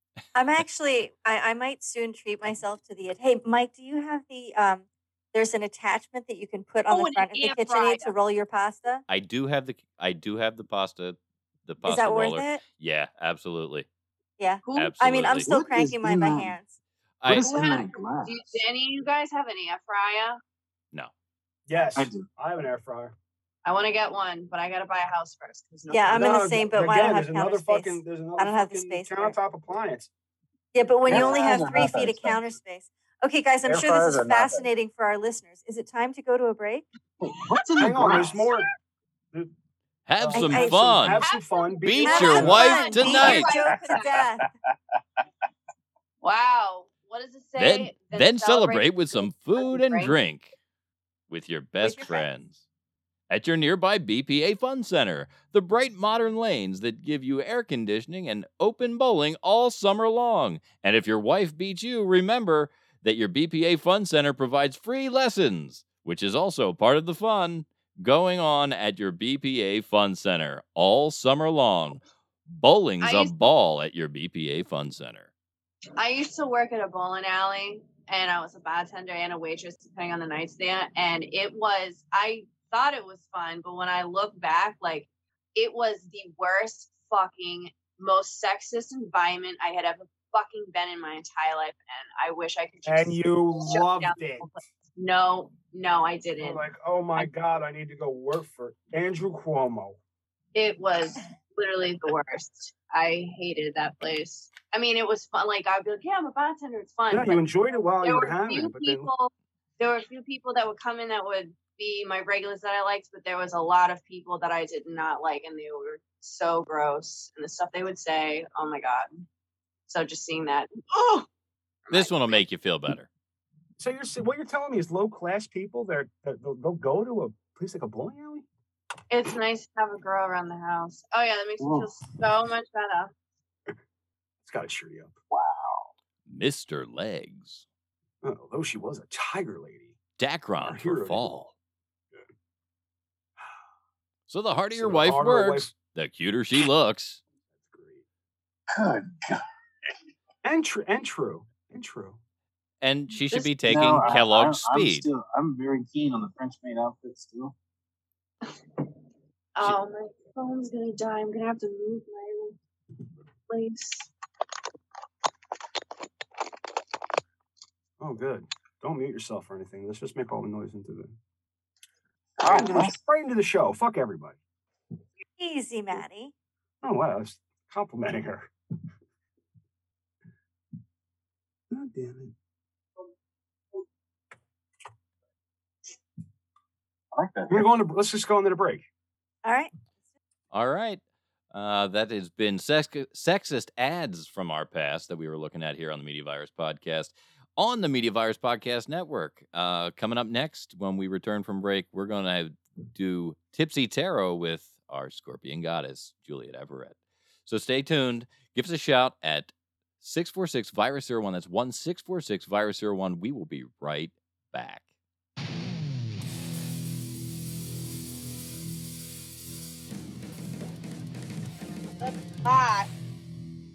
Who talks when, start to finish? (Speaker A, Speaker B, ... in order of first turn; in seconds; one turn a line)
Speaker A: 0.3-9.0
Speaker B: 6.9-8.1
Speaker C: 9.1-13.9
Speaker A: 11.8-12.6
Speaker A: 14.4-16.8
Speaker B: 14.6-14.9
Speaker C: 14.7-15.5
Speaker D: 15.3-16.5
Speaker C: 17.2-17.6
Speaker D: 17.2-18.6
Speaker B: 17.4-20.4
Speaker E: 21.7-23.1
Speaker D: 21.9-22.3
Speaker B: 23.6-26.4
Speaker A: 25.9-29.4
Speaker E: 26.1-30.1
Speaker A: 30.7-36.8
Speaker D: 31.1-32.4
Speaker E: 31.1-31.4
Speaker D: 33.6-34.7
Speaker D: 37.2-38.5
Speaker E: 37.8-38.7
Speaker B: 38.3-38.6
Speaker C: 40.1-41.2
Speaker E: 40.2-42.8
Speaker A: 40.3-41.2
Speaker B: 41.2-44.2
Speaker C: 41.8-43.5
Speaker A: 42.0-44.5
Speaker D: 43.5-44.4
Speaker B: 46.2-50.1
Speaker C: 47.6-50.5
Speaker C: 51.3-52.6
Speaker A: 51.8-52.3
Speaker C: 53.3-75.3
Speaker B: 73.0-73.3
Speaker B: 76.0-96.6
Speaker E: 92.8-94.6
Speaker E: 96.4-100.0
Speaker B: 100.5-107.4
Speaker E: 107.1-109.1
Speaker B: 108.0-119.2
Speaker B: 119.9-121.3
Speaker B: 121.8-122.4
Speaker C: 121.9-123.1
Speaker E: 123.8-128.4
Speaker B: 129.1-133.1
Speaker D: 131.6-131.9
Speaker E: 134.4-135.1
Speaker D: 135.3-135.9
Speaker C: 136.3-137.6
Speaker E: 138.2-140.0
Speaker C: 140.2-141.5
Speaker E: 140.6-141.5
Speaker C: 144.3-147.2
Speaker E: 144.7-145.7
Speaker E: 147.5-148.0
Speaker D: 148.7-149.4
Speaker E: 150.4-152.2
Speaker C: 152.8-155.1
Speaker B: 153.3-153.5
Speaker D: 153.7-157.5
Speaker B: 159.6-162.6
Speaker B: 163.5-164.1
Speaker E: 168.0-171.2
Speaker D: 172.4-173.0
Speaker E: 172.4-174.4
Speaker A: 175.3-176.3
Speaker E: 176.8-178.5
Speaker E: 181.7-182.3
Speaker D: 187.1-187.7
Speaker E: 187.5-188.8
Speaker A: 189.4-189.7
Speaker C: 190.5-191.0
Speaker C: 191.5-214.8
Speaker B: 222.0-222.9